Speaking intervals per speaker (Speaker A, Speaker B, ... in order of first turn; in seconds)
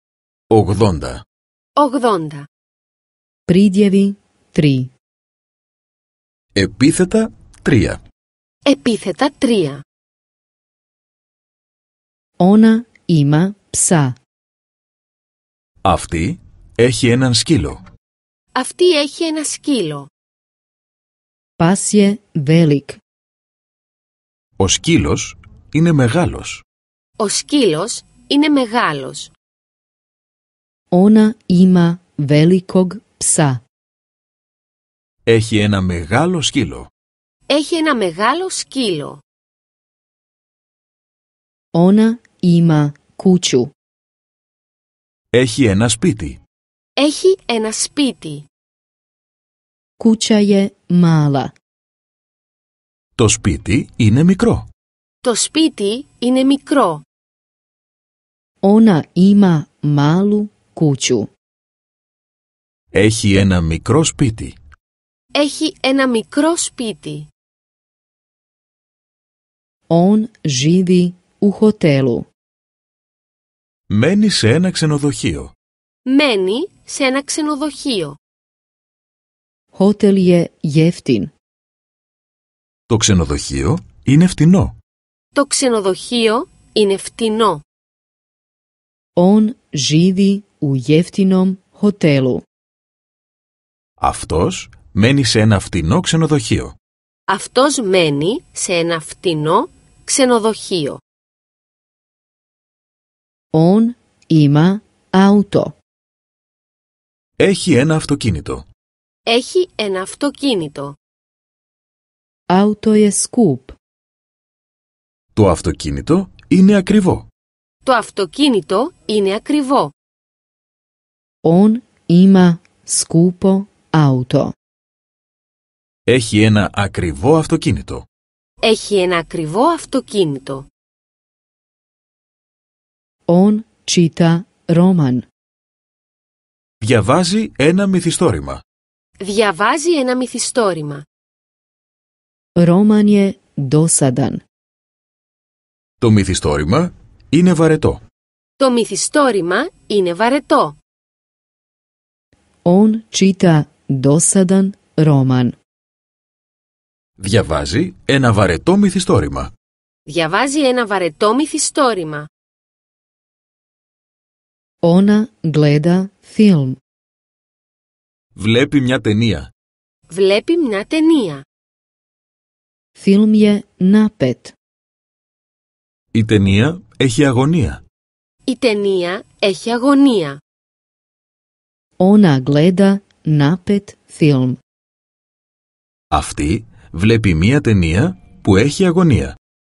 Speaker A: 0.5-1.2, 6.5-8.0, 15.8-17.8, 24.6-26.6, 35.2-36.9, 45.3-46.4, 53.2-54.6, 62.9-64.5, 73.9-75.5, 82.9-84.7, 94.0-96.7, 107.4-108.6, 115.3-117.2, 126.1-128.0, 136.8-138.6, 146.0-148.0, 157.2-159.5, 168.3-169.5, 176.1-177.8, 186.1-189.3
Speaker B: 1.8-2.5, 8.7-9.8, 18.6-20.1, 27.2-29.3, 37.5-39.2, 47.0-48.4, 55.2-57.0, 65.3-67.3, 76.1-78.2, 85.3-87.6, 97.3-101.0, 109.3-110.9, 117.8-119.9, 128.6-130.7, 139.2-141.0, 148.6-150.8, 160.1-162.3, 170.1-171.4, 178.5-180.4
Speaker C: 3.5-4.9, 12.4-14.2, 21.6-23.0, 30.9-33.6, 41.7-43.7, 50.0-51.5, 58.6-61.3, 69.9-72.3, 79.7-81.3, 89.2-92.4, 103.5-105.8, 112.5-113.8, 121.4-124.5, 133.3-135.2, 142.6-144.4, 152.6-155.6, 164.8-166.8, 172.9-174.5, 182.0-184.6